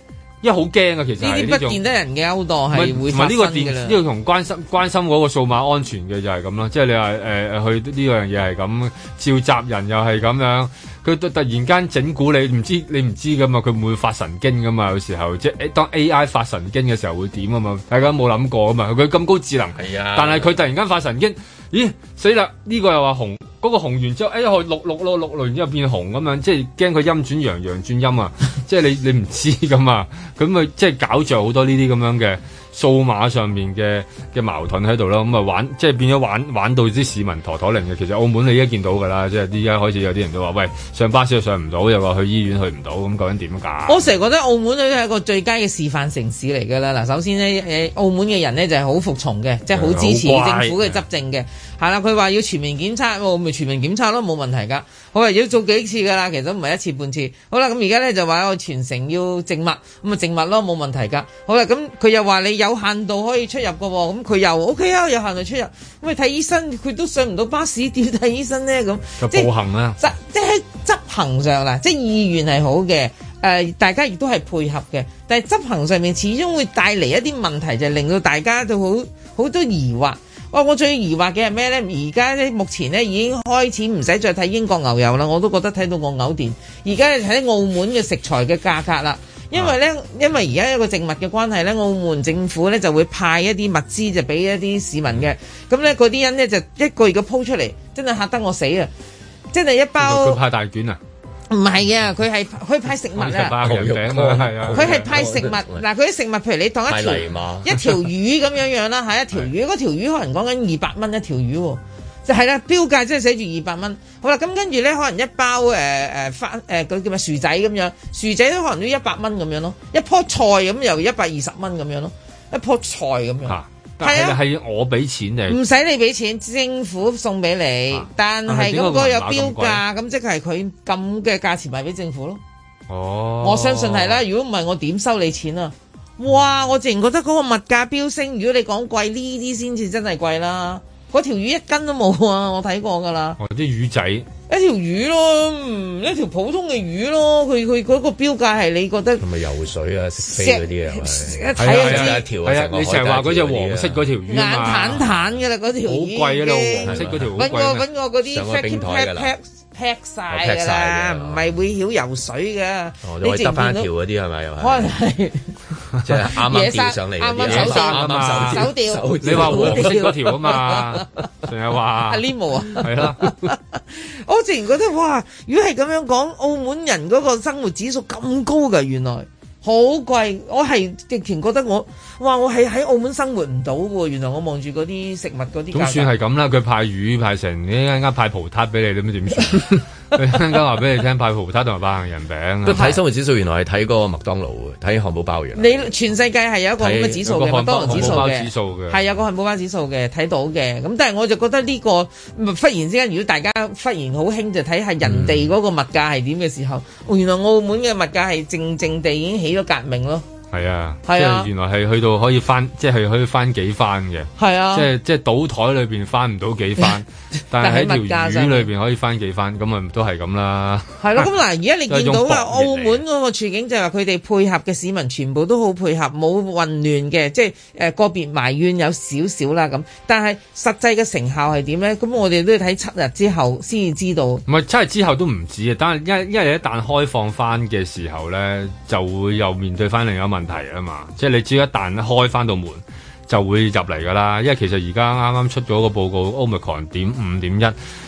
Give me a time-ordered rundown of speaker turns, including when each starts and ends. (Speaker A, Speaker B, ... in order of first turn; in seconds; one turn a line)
Speaker A: 0.4-1.8
Speaker B: 1.2-4.0
Speaker A: 2.7-44.1
Speaker C: 19.8-20.5
Speaker B: 43.9-98.9
Speaker A: 49.8-51.0
Speaker A: 69.2-70.0
Speaker B: 99.5-100.4
Speaker A: 100.0-101.0
Speaker B: 101.5-103.6
Speaker A: 103.2-105.1
Speaker C: 103.6-105.8
Speaker B: 104.7-124.4
Speaker C: 106.9-108.1
Speaker A: 123.5-125.6
Speaker B: 125.5-132.4
Speaker A: 127.9-129.8
Speaker A: 132.9-134.2
Speaker B: 133.4-143.4
Speaker A: 143.4-144.3
Speaker B: 144.5-149.2
Speaker C: 149.2-154.0
Speaker B: 150.2-152.2
Speaker A: 151.6-155.1
Speaker B: 154.3-163.9
Speaker A: 155.8-157.9
Speaker C: 156.8-157.4
Speaker C: 158.2-159.3
Speaker C: 160.3-161.4
Speaker C: 163.0-164.9
Speaker B: 164.6-165.4
Speaker C: 166.0-170.1
Speaker B: 166.3-171.1
Speaker A: 167.4-172.2
Speaker B: 172.1-186.1
Speaker A: 172.8-173.3
Speaker A: 185.7-193.0
Speaker C: 192.7-195.7
Speaker B: 195.6-210.2
Speaker C: 196.8-197.2
Speaker A: 197.2-199.0
Speaker C: 197.8-198.2
Speaker C: 205.0-205.5
Speaker A: 210.5-221.3
Speaker B: 211.1-211.5
Speaker B: 214.4-214.9
Speaker B: 217.6-218.7
Speaker B: 221.0-234.4
Speaker A: 221.9-223.0
Speaker A: 234.5-247.8